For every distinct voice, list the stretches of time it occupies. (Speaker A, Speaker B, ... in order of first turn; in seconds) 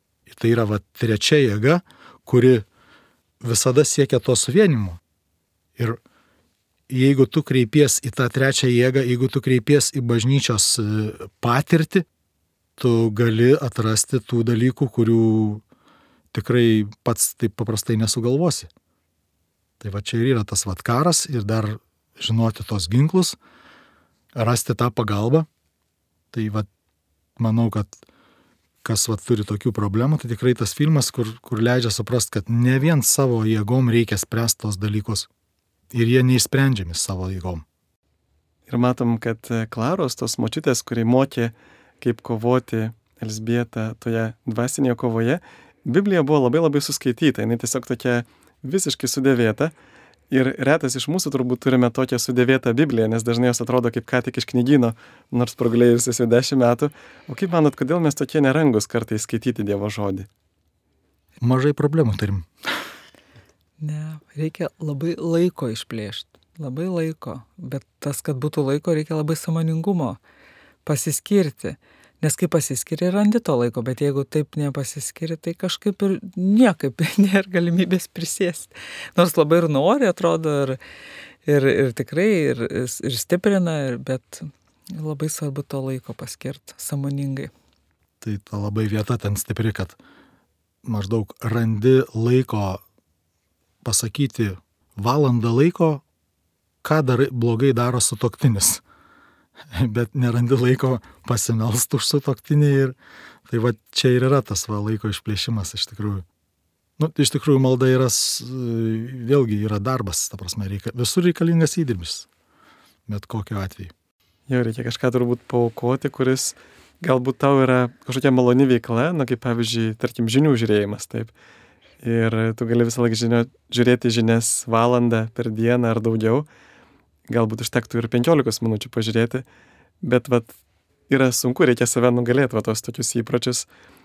Speaker A: 0.3-2.6, 3.4-5.0, 6.9-12.1, 12.8-15.6, 16.3-18.7, 19.8-23.4, 24.3-25.5, 26.3-26.7, 27.4-28.0, 28.8-35.3, 35.9-37.6, 61.4-62.5, 88.2-90.0, 90.8-92.8, 93.8-96.0, 96.8-98.8, 99.7-103.0, 103.5-106.2, 107.0-112.3, 113.1-113.9
Speaker B: 38.7-49.7, 50.3-60.3, 114.5-121.3, 122.0-126.5, 127.3-129.4, 130.0-130.6, 131.1-133.7
Speaker C: 63.8-70.2, 70.8-80.8, 81.5-87.5